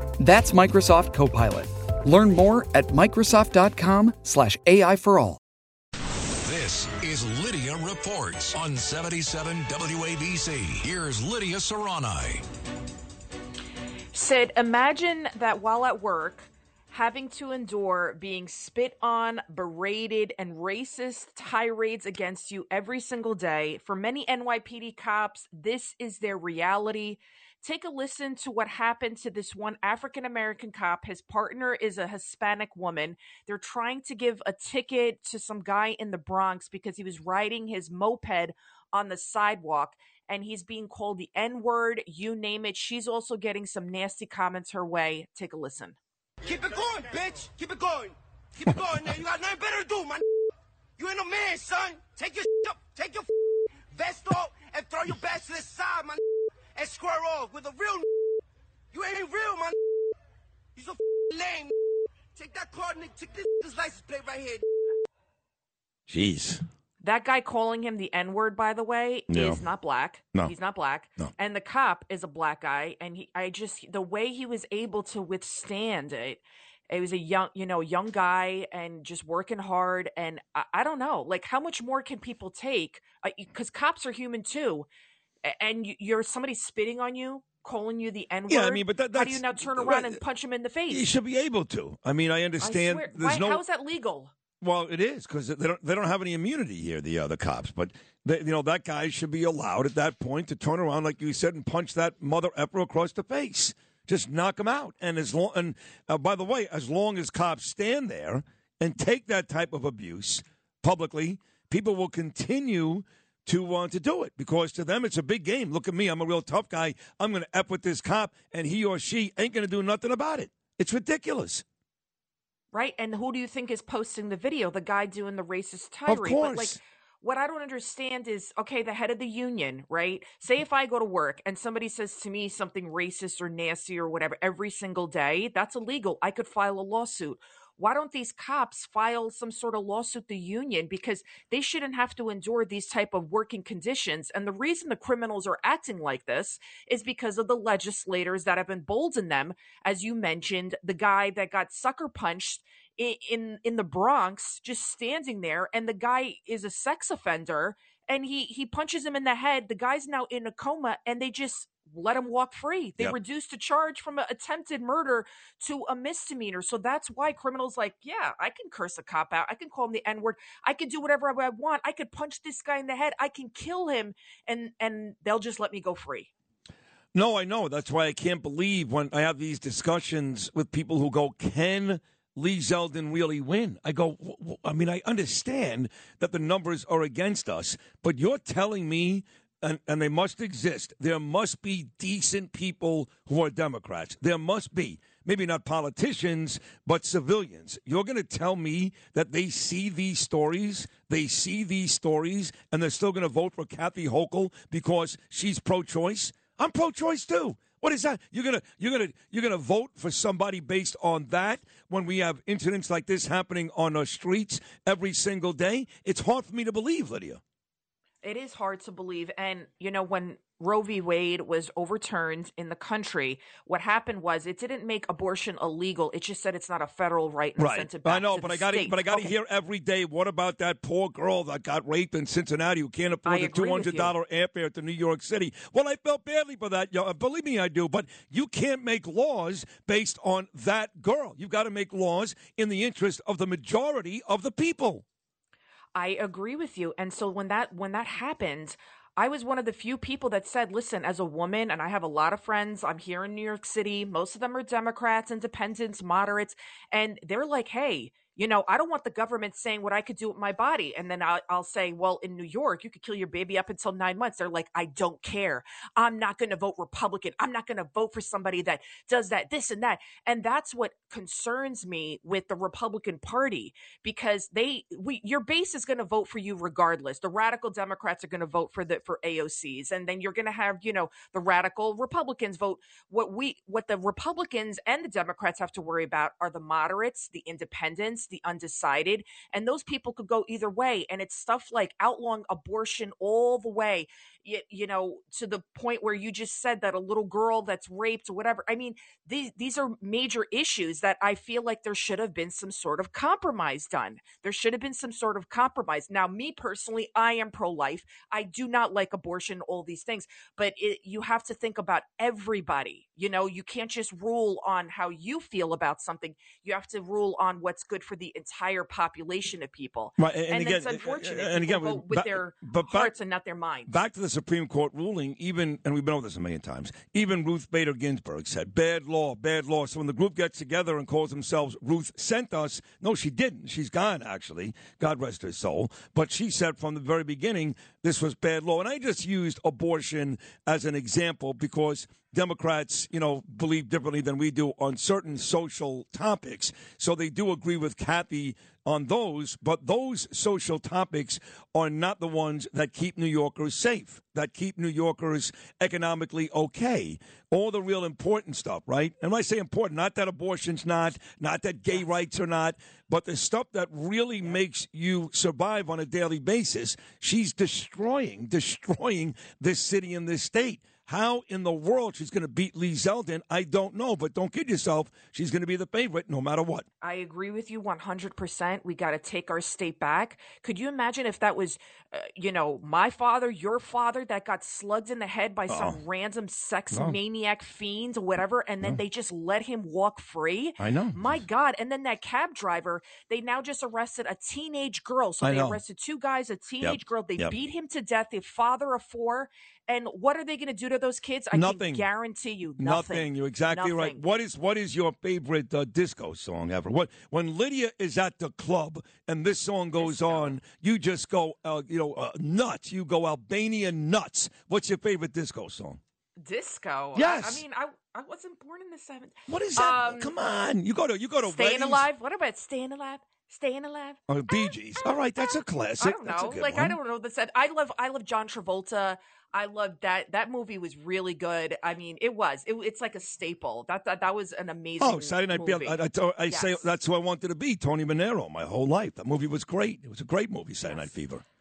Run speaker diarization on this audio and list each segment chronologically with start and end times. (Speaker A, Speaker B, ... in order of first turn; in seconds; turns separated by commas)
Speaker A: 0.2-5.4, Speaker B: 6.3-12.4, Speaker C: 14.1-46.0, Speaker D: 46.4-50.2, Speaker D: 51.0-53.3, Speaker D: 53.9-56.2, Speaker D: 56.7-58.1, Speaker D: 58.9-59.8, Speaker D: 60.8-61.7, Speaker D: 62.3-64.6, Speaker E: 66.1-66.6, Speaker C: 67.0-84.9, Speaker E: 69.3-69.6, Speaker C: 85.4-91.1, Speaker E: 88.5-90.2, Speaker E: 90.9-93.6, Speaker C: 92.6-94.3, Speaker E: 94.6-121.6, Speaker C: 122.7-176.3, Speaker E: 126.1-126.8, Speaker E: 177.1-217.4, Speaker C: 218.2-229.3, Speaker E: 227.6-245.0, Speaker C: 233.2-234.2, Speaker C: 245.9-323.9, Speaker E: 320.2-323.1, Speaker E: 323.9-376.9, Speaker C: 377.0-404.2, Speaker E: 385.7-386.0, Speaker E: 386.9-387.2, Speaker E: 390.8-391.4, Speaker E: 395.4-395.8, Speaker E: 396.8-397.6, Speaker E: 401.5-402.1, Speaker E: 402.8-416.0, Speaker C: 410.0-410.6, Speaker C: 416.4-420.3, Speaker E: 417.1-417.6, Speaker E: 419.5-422.1, Speaker C: 421.4-424.2, Speaker E: 424.3-427.0, Speaker C: 426.0-436.9, Speaker E: 435.0-441.4